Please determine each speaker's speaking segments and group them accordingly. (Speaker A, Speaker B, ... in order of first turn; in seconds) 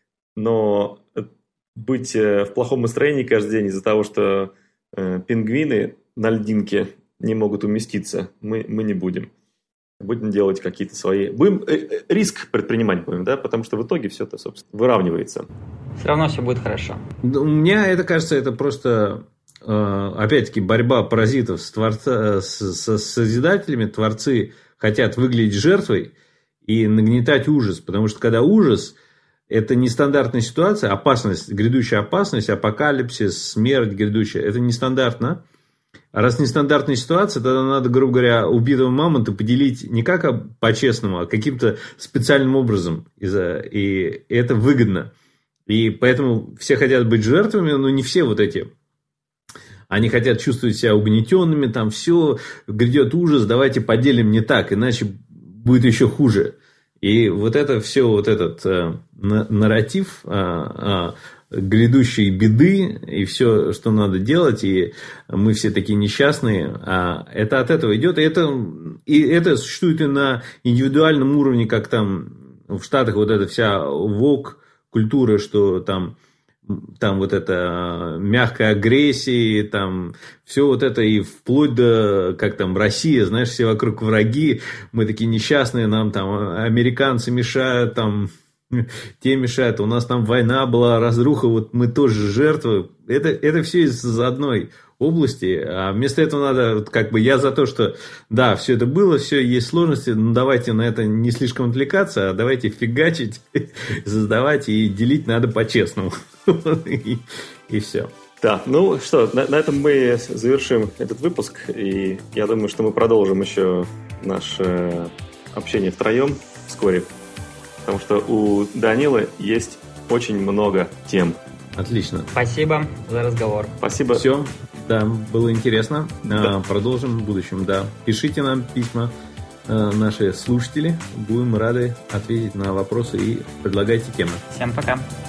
Speaker A: 0.3-9.3, 10.0-15.5, 108.4-117.1, 117.8-121.4, 123.8-124.2
Speaker B: 16.0-17.0, 122.3-123.7, 134.5-135.1
Speaker C: 17.2-26.1, 26.6-28.9, 29.5-35.4, 36.1-45.1, 45.7-48.7, 49.9-108.1, 121.8-122.3, 124.1-129.1, 129.7-134.4